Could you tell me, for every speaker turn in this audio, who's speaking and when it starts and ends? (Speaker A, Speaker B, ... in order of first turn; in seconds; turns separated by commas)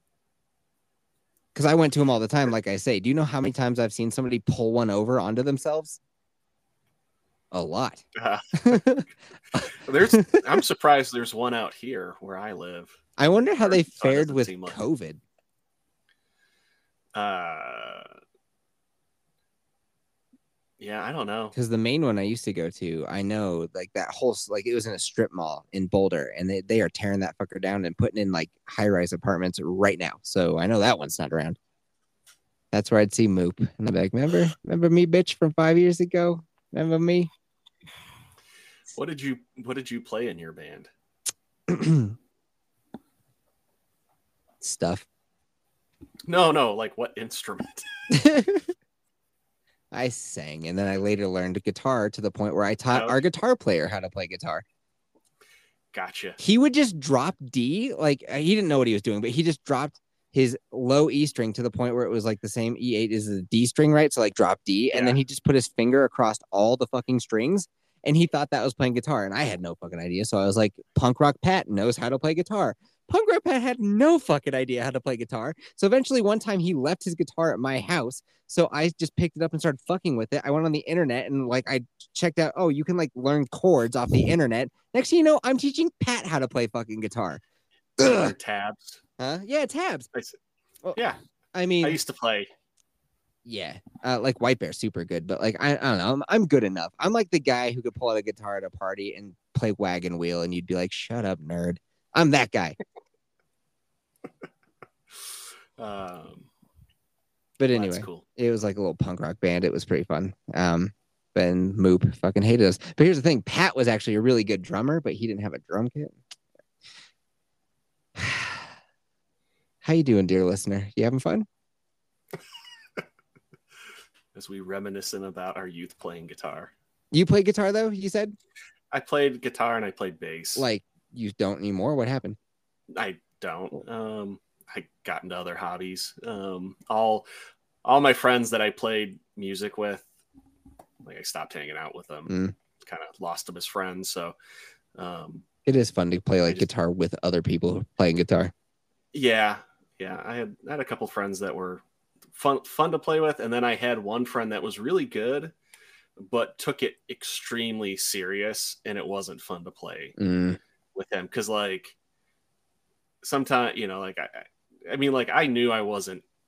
Speaker A: 1.5-6.0, Speaker A: 7.5-8.0, Speaker B: 8.2-9.0, Speaker A: 8.6-9.7, Speaker B: 9.8-13.0, Speaker A: 10.2-10.6, Speaker A: 13.2-15.2, Speaker B: 13.6-14.8, Speaker B: 17.1-18.1, Speaker B: 20.8-21.5, Speaker A: 21.5-31.6, Speaker A: 32.7-37.3, Speaker B: 38.9-40.9, Speaker A: 41.7-42.1, Speaker A: 44.6-45.0, Speaker B: 46.3-47.9, Speaker A: 48.1-48.7, Speaker A: 49.9-54.6, Speaker B: 52.9-53.2, Speaker B: 55.9-56.4, Speaker A: 56.4-87.4, Speaker B: 64.9-65.2, Speaker A: 88.0-88.3, Speaker B: 88.0-89.0, Speaker A: 89.2-90.1, Speaker A: 90.8-92.0, Speaker B: 91.8-92.5, Speaker A: 93.4-102.8, Speaker B: 105.8-106.5, Speaker A: 107.6-116.2, Speaker B: 107.7-108.2, Speaker A: 118.2-118.7, Speaker A: 119.8-121.5, Speaker B: 124.3-126.7, Speaker A: 127.1-128.3, Speaker B: 128.9-130.7, Speaker A: 130.6-132.4, Speaker B: 132.9-137.2, Speaker B: 137.8-140.1, Speaker B: 141.0-144.3, Speaker A: 142.3-142.5, Speaker B: 144.9-145.4, Speaker A: 145.7-148.5, Speaker B: 146.4-146.7, Speaker B: 149.1-151.8, Speaker B: 152.3-155.5, Speaker B: 156.2-160.2, Speaker A: 160.2-160.6, Speaker B: 160.9-161.9, Speaker B: 163.2-166.2